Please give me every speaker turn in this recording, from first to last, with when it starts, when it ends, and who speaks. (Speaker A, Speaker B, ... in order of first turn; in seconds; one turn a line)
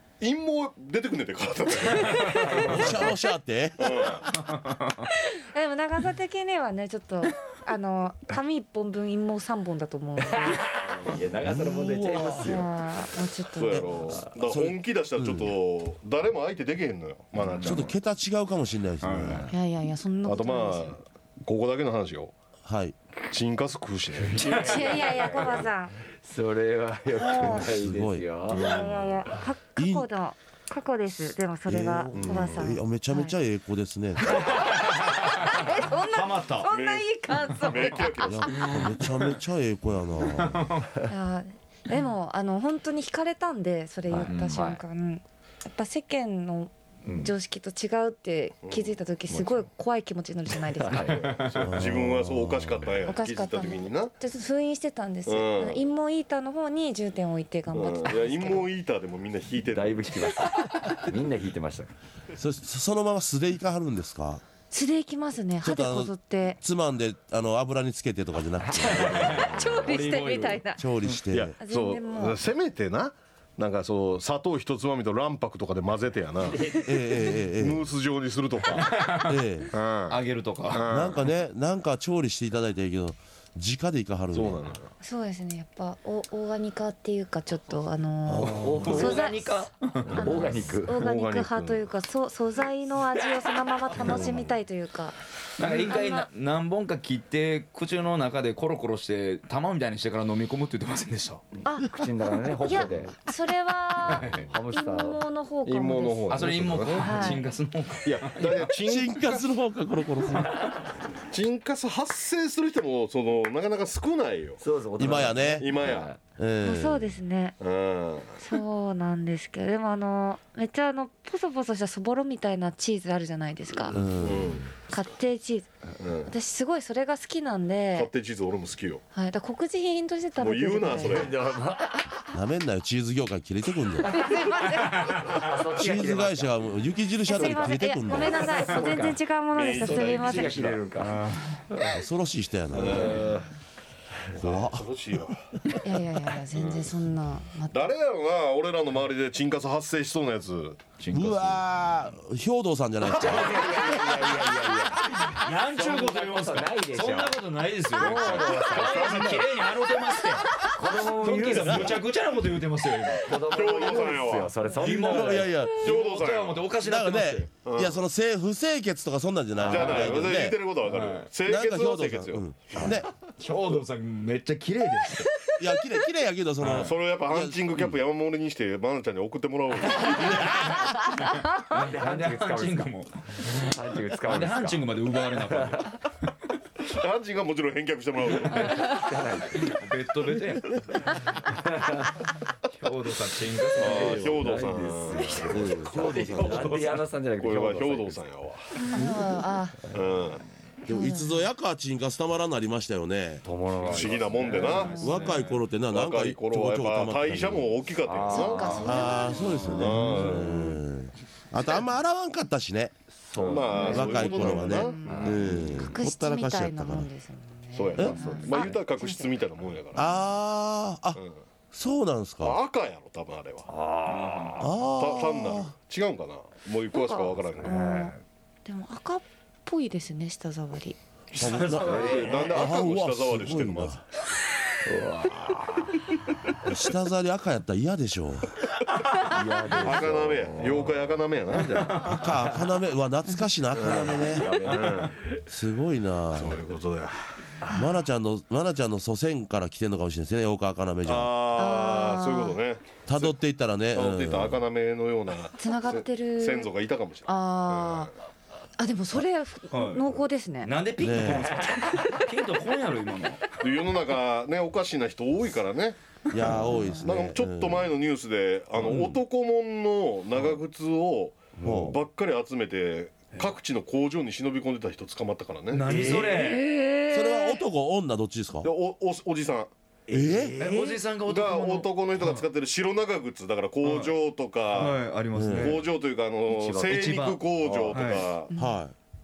Speaker A: 0.2-3.0
Speaker B: 2.2-3.0
Speaker C: 2.6-4.2
Speaker A: 3.8-4.3
Speaker D: 4.5-5.0
Speaker E: 5.1-10.8
Speaker B: 10.2-12.7
Speaker A: 10.9-11.2
Speaker C: 11.4-12.5
Speaker E: 12.2-14.2
Speaker A: 13.6-17.9
Speaker C: 14.3-15.5
Speaker D: 17.4-17.8
Speaker C: 17.6-19.4
Speaker D: 19.0-19.5
Speaker E: 19.5-20.9
Speaker A: 20.2-22.3
Speaker C: 22.6-22.9
Speaker A: 23.3-24.7
Speaker B: 24.2-25.7
Speaker D: 24.4-24.6
Speaker E: 24.5-25.9
Speaker B: 26.2-28.8
Speaker E: 27.2-27.7
Speaker C: 27.4-28.2
Speaker E: 28.5-33.3
Speaker A: 28.5-29.2
Speaker C: 29.8-30.1
Speaker C: 31.7-34.5
Speaker A: 32.1-32.6
Speaker E: 34.3-38.5
Speaker D: 34.6-36.7
Speaker A: 36.7-38.6
Speaker C: 38.2-40.7
Speaker D: 40.3-40.9
Speaker E: 41.1-51.3
Speaker B: 44.1-44.8
Speaker D: 44.2-44.6
Speaker B: 47.0-47.3
Speaker A: 48.6-49.0
Speaker B: 49.3-49.6
Speaker B: 50.8-51.5
Speaker D: 51.1-51.6
Speaker A: 51.4-54.1
Speaker C: 51.6-53.0
Speaker E: 53.0-58.7
Speaker A: 55.2-55.8
Speaker A: 57.7-60.2
Speaker B: 59.7-61.9
Speaker C: 62.4-64.4
Speaker E: 64.7-66.6
Speaker C: 65.6-69.5
Speaker B: 68.6-69.9
Speaker D: 69.0-71.2
Speaker E: 69.4-70.8
Speaker C: 70.8-71.5
Speaker A: 71.3-76.7
Speaker E: 71.6-72.4
Speaker C: 76.8-77.9
Speaker A: 77.5-79.0
Speaker D: 78.8-79.4
Speaker C: 79.2-79.7
Speaker A: 79.7-81.2
Speaker D: 80.1-80.8
Speaker C: 80.9-84.6
Speaker A: 84.3-84.9
Speaker E: 85.0-96.3
Speaker C: 88.2-89.0
Speaker B: 88.4-89.4
Speaker D: 88.8-90.4
Speaker B: 90.1-91.0
Speaker A: 90.1-91.9
Speaker B: 94.0-94.5
Speaker D: 95.6-101.4
Speaker E: 101.6-101.9
Speaker B: 101.8-103.1
Speaker E: 102.6-107.4
Speaker D: 104.1-104.5
Speaker B: 104.2-107.4
Speaker A: 105.7-107.0
Speaker D: 106.3-108.7
Speaker A: 108.3-109.5
Speaker C: 108.8-110.7
Speaker A: 111.3-114.6
Speaker B: 114.6-116.2
Speaker C: 115.0-117.1
Speaker A: 115.6-116.1
Speaker E: 116.6-117.5
Speaker A: 117.6-118.4
Speaker E: 118.4-124.0
Speaker C: 123.9-124.6
Speaker B: 123.9-124.6
Speaker A: 124.2-124.7
Speaker E: 124.8-125.7
Speaker A: 126.0-126.3
Speaker E: 126.2-128.1
Speaker A: 127.9-129.0
Speaker E: 129.1-131.3
Speaker A: 130.4-131.3
Speaker B: 130.9-132.1
Speaker C: 132.3-134.2
Speaker E: 134.0-135.4
Speaker D: 134.8-135.4
Speaker B: 135.2-136.7
Speaker C: 135.7-138.4
Speaker E: 137.2-140.7
Speaker B: 137.3-137.7
Speaker B: 138.2-139.2
Speaker A: 139.5-140.8
Speaker B: 139.7-141.2
Speaker D: 141.0-141.4
Speaker C: 141.8-143.2
Speaker B: 142.7-143.5
Speaker A: 142.7-143.3
Speaker A: 144.4-145.4
Speaker C: 144.4-144.9
Speaker E: 145.8-147.8
Speaker A: 146.5-146.9
Speaker A: 147.7-150.8
Speaker D: 151.0-151.6
Speaker C: 151.1-153.9
Speaker B: 153.0-157.4
Speaker D: 155.1-163.3
Speaker B: 157.9-159.4
Speaker A: 158.1-159.6
Speaker B: 160.7-162.0
Speaker C: 161.6-162.0
Speaker B: 163.2-165.5
Speaker A: 163.4-164.5
Speaker D: 164.7-167.5
Speaker C: 164.8-165.8
Speaker A: 165.8-166.7
Speaker C: 166.8-170.6
Speaker A: 167.6-168.0
Speaker A: 169.6-172.9
Speaker D: 169.6-170.3
Speaker D: 170.8-171.3
Speaker C: 171.4-173.1
Speaker D: 172.8-175.4
Speaker C: 175.6-177.7
Speaker D: 176.6-176.9
Speaker A: 176.7-180.7
Speaker B: 181.7-182.9
Speaker D: 181.7-186.1
Speaker B: 183.4-184.8
Speaker B: 185.4-185.9
Speaker A: 186.8-188.9
Speaker B: 188.5-189.7
Speaker D: 189.5-190.8
Speaker B: 191.5-192.2
Speaker D: 192.7-194.5
Speaker B: 193.7-198.2
Speaker A: 193.7-198.6
Speaker C: 195.5-196.8
Speaker D: 196.4-196.7
Speaker E: 198.8-199.9
Speaker A: 199.9-200.4
Speaker E: 200.9-201.3
Speaker C: 200.9-203.4
Speaker B: 203.4-205.0
Speaker A: 203.9-205.2
Speaker D: 203.9-205.6
Speaker E: 204.6-205.2
Speaker C: 205.0-207.7
Speaker A: 205.9-208.9
Speaker B: 208.0-210.3
Speaker E: 208.3-209.9
Speaker D: 208.6-210.2
Speaker C: 208.8-212.9
Speaker A: 209.8-210.5
Speaker B: 213.2-214.5
Speaker D: 213.4-213.8
Speaker A: 213.4-215.4
Speaker E: 213.8-219.3
Speaker C: 213.8-217.1
Speaker B: 215.0-215.6
Speaker A: 217.7-220.1
Speaker B: 217.9-218.7
Speaker C: 219.9-221.2
Speaker C: 221.7-222.6
Speaker A: 222.4-223.7
Speaker B: 223.7-224.7
Speaker D: 224.1-224.6
Speaker C: 224.6-225.7
Speaker A: 224.9-227.8
Speaker E: 226.9-228.1
Speaker B: 227.6-228.2
Speaker E: 228.6-231.0
Speaker C: 231.3-234.0
Speaker D: 231.4-232.4
Speaker A: 231.6-234.0
Speaker B: 231.7-232.5
Speaker B: 234.8-236.0
Speaker C: 236.6-238.6
Speaker B: 239.2-241.2
Speaker A: 239.7-242.2
Speaker D: 241.7-242.4
Speaker C: 242.0-244.5
Speaker A: 243.7-245.2
Speaker B: 244.1-245.2
Speaker C: 245.5-246.6
Speaker A: 246.3-247.2
Speaker C: 247.7-251.3
Speaker A: 251.1-253.3
Speaker E: 251.5-252.6
Speaker C: 253.1-254.6
Speaker A: 253.9-258.1
Speaker E: 255.6-256.7
Speaker E: 257.2-258.1
Speaker E: 258.8-260.7
Speaker D: 259.7-260.1
Speaker D: 260.6-263.4
Speaker C: 261.0-261.6
Speaker B: 261.2-262.2
Speaker A: 263.6-266.0
Speaker C: 266.3-267.9
Speaker E: 266.6-267.1
Speaker A: 267.0-276.3
Speaker C: 268.8-269.2
Speaker B: 271.6-272.0
Speaker C: 271.6-272.0
Speaker D: 275.7-276.6
Speaker B: 275.8-276.6
Speaker E: 276.3-277.6
Speaker C: 277.1-278.7
Speaker A: 278.6-279.7
Speaker B: 280.1-281.0
Speaker C: 280.1-280.5
Speaker D: 280.6-282.4
Speaker A: 281.2-285.0
Speaker D: 283.8-284.1
Speaker D: 284.7-285.8
Speaker C: 285.3-285.7
Speaker A: 285.6-288.5
Speaker B: 286.5-288.2
Speaker D: 286.9-288.3
Speaker E: 288.5-288.8
Speaker C: 288.6-288.9